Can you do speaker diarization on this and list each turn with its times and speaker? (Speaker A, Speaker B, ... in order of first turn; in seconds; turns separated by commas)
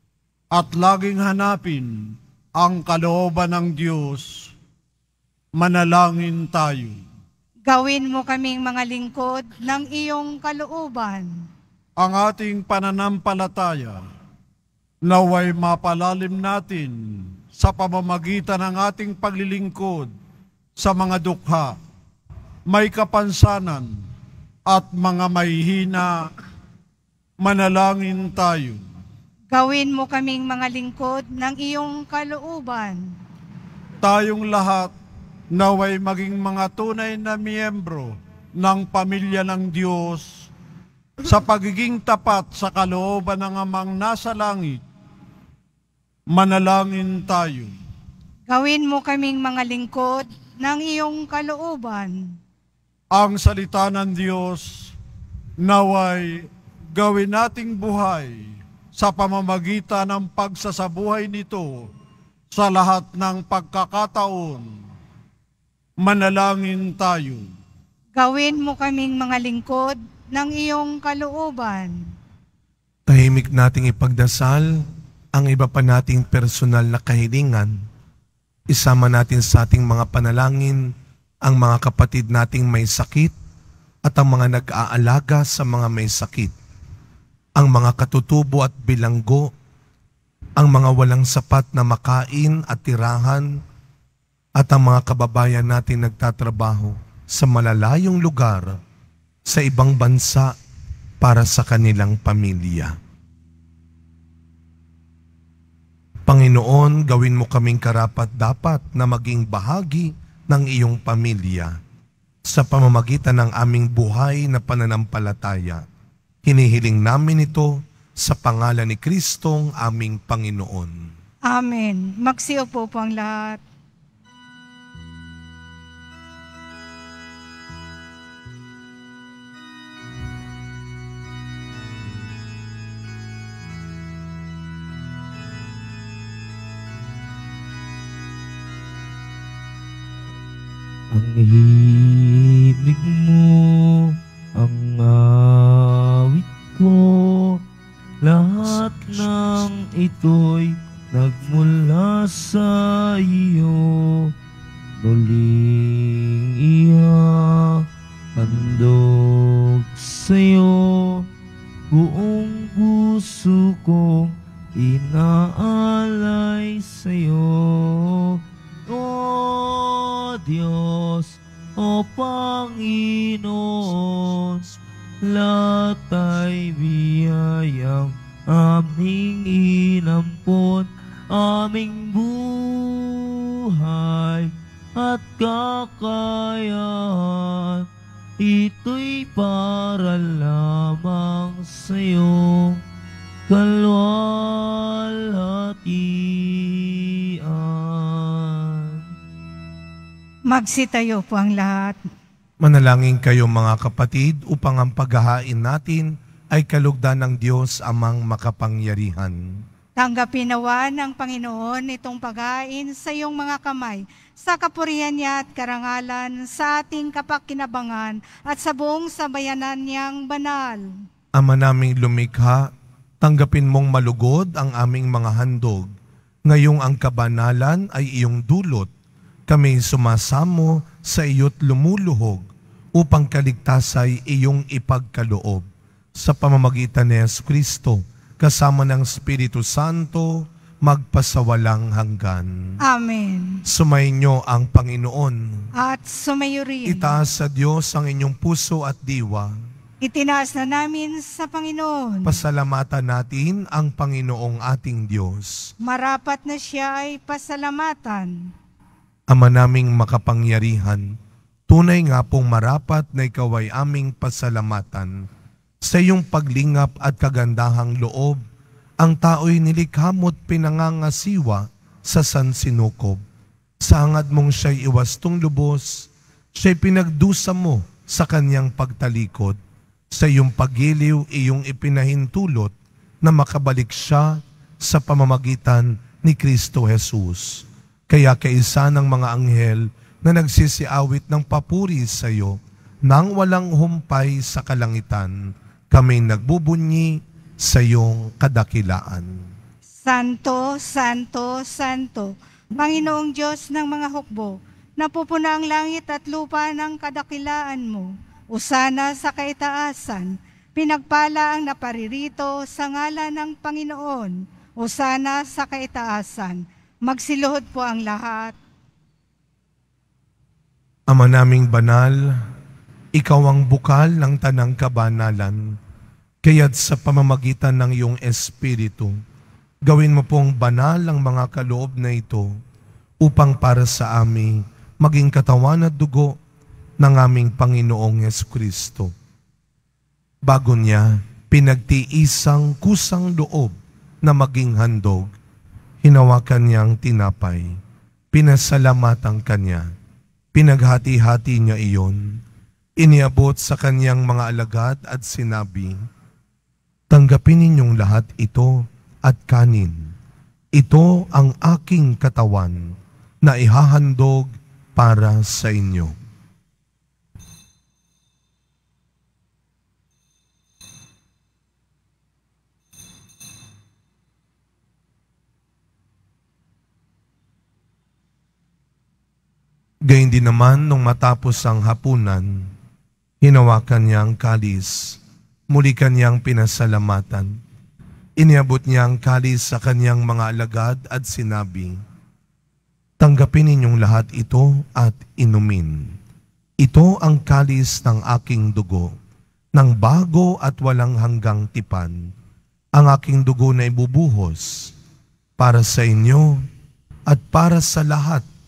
Speaker A: 0.5-4.5, Speaker A: 5.5-7.0, Speaker B: 7.7-11.4, Speaker A: 12.0-14.0, Speaker A: 15.0-20.1, Speaker A: 20.8-21.7, Speaker A: 22.7-24.0, Speaker A: 24.7-26.3, Speaker A: 27.4-28.8, Speaker B: 29.5-33.1, Speaker A: 34.0-34.9, Speaker A: 35.5-40.5, Speaker A: 41.2-44.8, Speaker A: 46.3-47.8, Speaker B: 48.5-52.4, Speaker A: 53.1-54.9, Speaker A: 55.6-61.9, Speaker A: 62.5-64.7, Speaker A: 66.0-67.5, Speaker B: 68.1-72.0, Speaker C: 73.1-74.8, Speaker C: 75.3-77.8, Speaker C: 78.7-80.9, Speaker C: 81.4-83.3, Speaker C: 84.0-86.5, Speaker C: 87.5-89.5, Speaker C: 90.6-93.6, Speaker C: 94.6-98.8, Speaker C: 99.5-100.5, Speaker C: 101.2-103.0, Speaker C: 106.3-111.8, Speaker C: 112.5-115.8, Speaker C: 116.5-121.1, Speaker B: 121.5-123.6, Speaker D: 141.1-147.6, Speaker D: 148.2-154.3, Speaker D: 155.0-161.3, Speaker D: 161.9-174.6, Speaker D: 175.2-187.9, Speaker D: 188.4-192.8, Speaker D: 193.5-199.0, Speaker B: 200.5-202.0, Speaker C: 202.6-209.6, Speaker B: 210.0-220.9, Speaker C: 221.3-225.9, Speaker C: 226.4-228.9, Speaker C: 229.5-235.6, Speaker C: 236.2-242.8, Speaker B: 242.8-243.6, Speaker C: 243.7-245.7, Speaker B: 245.8-247.1, Speaker C: 246.8-249.5, Speaker B: 250.0-252.3, Speaker C: 252.2-255.7, Speaker B: 255.8-258.5, Speaker C: 259.3-261.1, Speaker C: 261.7-265.2, Speaker C: 265.8-268.4, Speaker C: 269.0-273.2, Speaker C: 273.8-279.6, Speaker C: 280.1-295.4, Speaker C: 295.9-299.4, Speaker B: 300.0-318.5, Speaker C: 321.1-322.4, Speaker C: 323.1-325.6, Speaker C: 326.4-329.1, Speaker C: 329.9-332.5, Speaker C: 333.2-336.4, Speaker C: 337.0-339.1, Speaker C: 340.4-345.3, Speaker C: 346.0-347.8, Speaker C: 348.3-349.9, Speaker C: 350.5-352.4, Speaker C: 353.0-356.0, Speaker C: 357.1-360.1, Speaker C: 360.7-366.2, Speaker C: 380.1-382.7, Speaker C: 383.4-385.2, Speaker C: 385.7-387.6, Speaker C: 388.4-392.0, Speaker C: 393.2-396.1, Speaker C: 396.8-399.1, Speaker C: 399.7-402.3, Speaker C: 402.9-404.9, Speaker C: 405.6-406.6, Speaker C: 407.3-408.4